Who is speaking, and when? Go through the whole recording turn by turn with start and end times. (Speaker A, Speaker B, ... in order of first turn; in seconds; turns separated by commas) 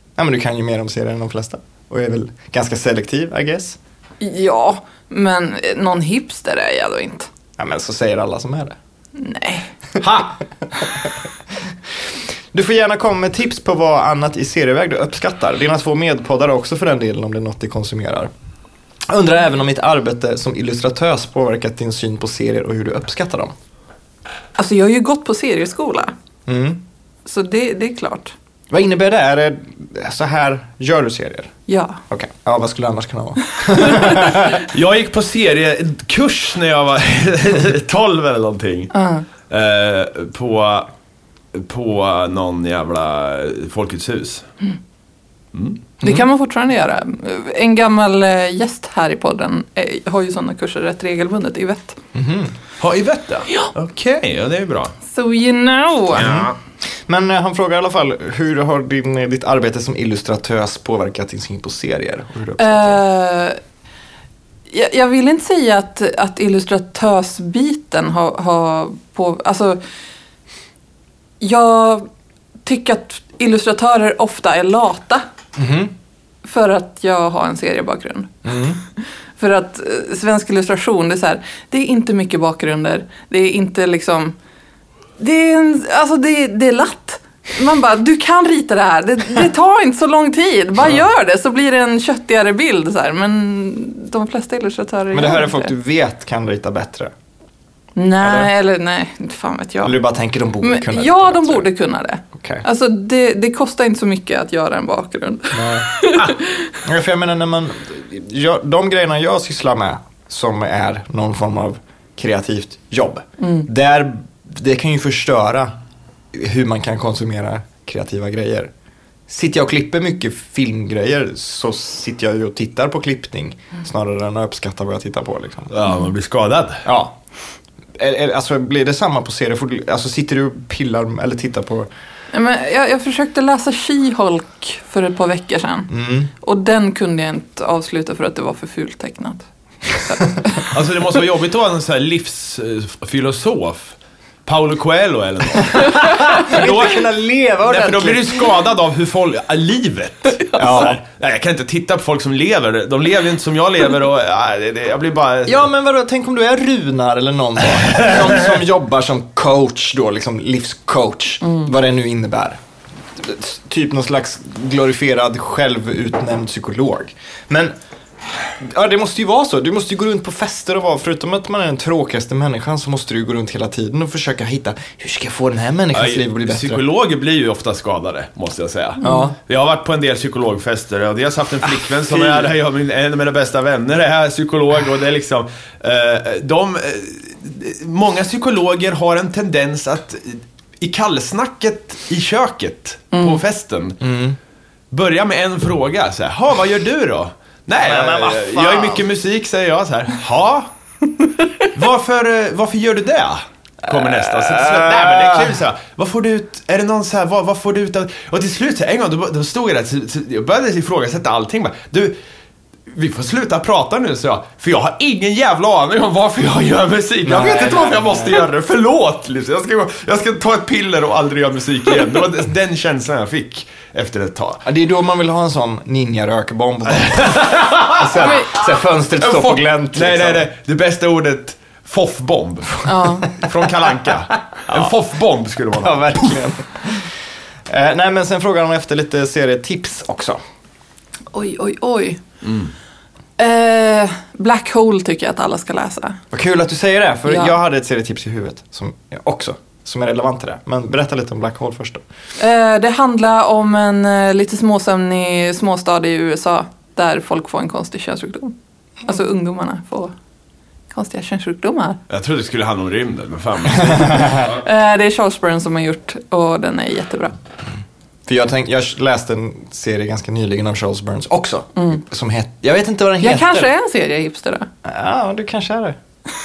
Speaker A: 0.2-3.8, Speaker B: 4.2-7.3, Speaker A: 7.6-8.8, Speaker B: 9.2-9.7, Speaker C: 10.0-10.3, Speaker A: 10.8-11.1, Speaker A: 12.5-18.3, Speaker A: 19.1-23.5, Speaker B: 24.6-26.1, Speaker A: 26.5-26.8, Speaker B: 27.2-28.3, Speaker A: 28.7-31.5, Speaker B: 31.7-32.0, Speaker A: 32.1-34.6, Speaker C: 34.5-38.9, Speaker B: 38.9-39.2, Speaker C: 39.5-40.9, Speaker C: 41.5-44.5, Speaker C: 45.5-45.8, Speaker B: 46.0-52.0, Speaker A: 52.1-52.5, Speaker C: 52.8-54.9, Speaker B: 55.1-56.2, Speaker C: 56.1-56.5, Speaker A: 56.2-56.5, Speaker A: 57.1-63.0, Speaker B: 62.6-63.6, Speaker B: 64.7-69.8, Speaker B: 71.4-72.1, Speaker B: 72.6-75.2, Speaker A: 75.5-75.9, Speaker B: 76.4-78.3, Speaker A: 78.4-78.8, Speaker B: 79.4-84.3, Speaker B: 85.2-95.7, Speaker A: 95.1-97.1, Speaker B: 98.0-100.0, Speaker A: 98.2-98.5, Speaker A: 99.8-101.7, Speaker B: 100.6-106.7, Speaker A: 102.3-102.6, Speaker A: 105.5-106.0, Speaker A: 106.8-115.7, Speaker B: 113.4-113.7, Speaker A: 116.3-118.7, Speaker A: 119.3-125.7, Speaker C: 125.7-126.8, Speaker A: 126.8-127.2, Speaker A: 128.0-131.9, Speaker B: 132.3-140.6, Speaker A: 135.9-136.3, Speaker C: 140.7-147.1, Speaker A: 145.7-148.4, Speaker C: 147.6-155.7, Speaker B: 150.4-150.8, Speaker A: 150.6-151.0, Speaker A: 155.4-162.6, Speaker A: 163.2-167.7, Speaker A: 168.6-176.8, Speaker C: 175.9-194.0, Speaker B: 179.0-179.3, Speaker A: 179.0-179.3, Speaker A: 182.0-182.5, Speaker B: 193.1-193.4, Speaker A: 194.0-194.4, Speaker C: 194.9-200.7, Speaker A: 197.8-199.0, Speaker C: 201.7-212.2, Speaker A: 203.8-205.6, Speaker C: 212.9-224.6, Speaker A: 217.2-218.4, Speaker A: 224.6-230.4, Speaker C: 226.9-228.3, Speaker B: 228.2-228.5, Speaker C: 229.2-236.3, Speaker B: 232.8-233.3, Speaker A: 234.7-234.9, Speaker A: 235.8-237.1, Speaker A: 237.7-240.4, Speaker B: 241.3-242.2, Speaker C: 242.4-242.7, Speaker B: 243.4-246.2, Speaker A: 246.3-252.0, Speaker B: 247.3-247.5, Speaker B: 252.4-260.1, Speaker B: 260.9-262.0, Speaker C: 262.1-264.5, Speaker A: 264.1-264.4, Speaker B: 264.5-267.3, Speaker A: 268.3-273.7, Speaker B: 273.2-274.7, Speaker A: 274.8-276.0